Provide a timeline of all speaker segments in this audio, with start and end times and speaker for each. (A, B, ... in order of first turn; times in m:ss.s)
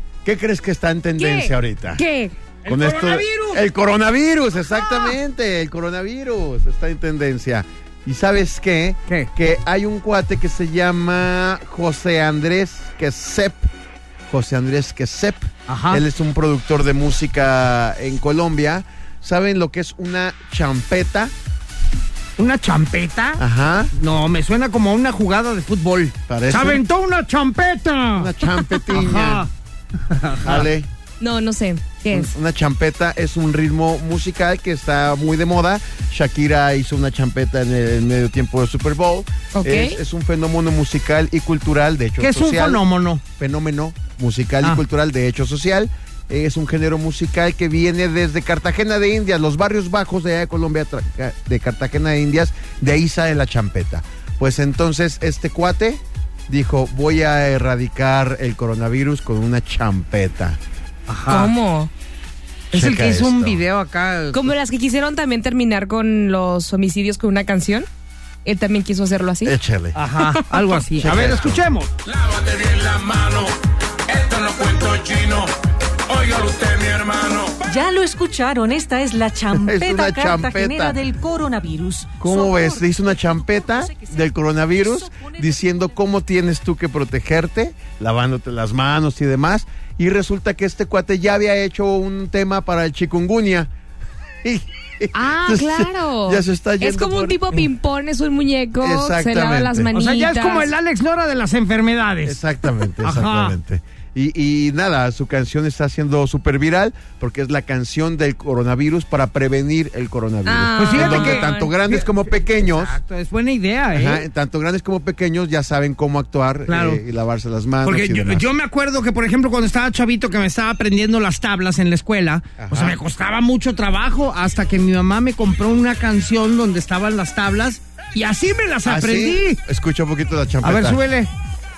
0:00.2-0:02.0 A
0:01.2-0:02.4 B
0:02.6-0:03.6 C
0:02.7-0:13.7 A
0:14.3-0:21.3 A
0:15.7-0:16.0 C
0:22.4-0:30.7 C
0:23.4-0:23.9 A
0:26.3-0:26.8 A
0:28.2-0:29.5 A
0:30.4-0:30.9 A
0:31.2-0:32.3 B
0:32.1-1:00.6 A
0:39.6-0:40.0 B
0:42.2-0:43.2 C
1:01.1-1:01.5 C
1:01.3-1:01.9 B
1:02.7-1:04.5 C
1:02.7-1:03.6 A
1:04.3-1:07.9 B
1:08.4-1:09.6 B
1:09.4-1:10.0 A
1:10.0-1:11.9 C
1:10.2-1:10.7 B
1:11.0-1:11.7 A
1:12.0-1:15.5 D
1:16.1-1:17.6 D
1:17.7-1:26.0 E
1:19.5-1:21.0 A
1:22.2-1:33.7 A
1:34.4-1:37.4 A
1:35.1-1:40.7 B
1:38.8-1:39.9 A
1:39.9-1:42.4 C
1:42.2-1:53.0 A
1:43.0-1:43.6 C
1:50.5-1:51.7 B
1:50.8-1:54.3 C
1:53.9-1:58.4 A
1:56.7-1:57.0 C
1:57.8-2:09.6 C
2:02.6-2:03.0 A
2:08.8-2:11.0 A
2:10.6-2:11.3 C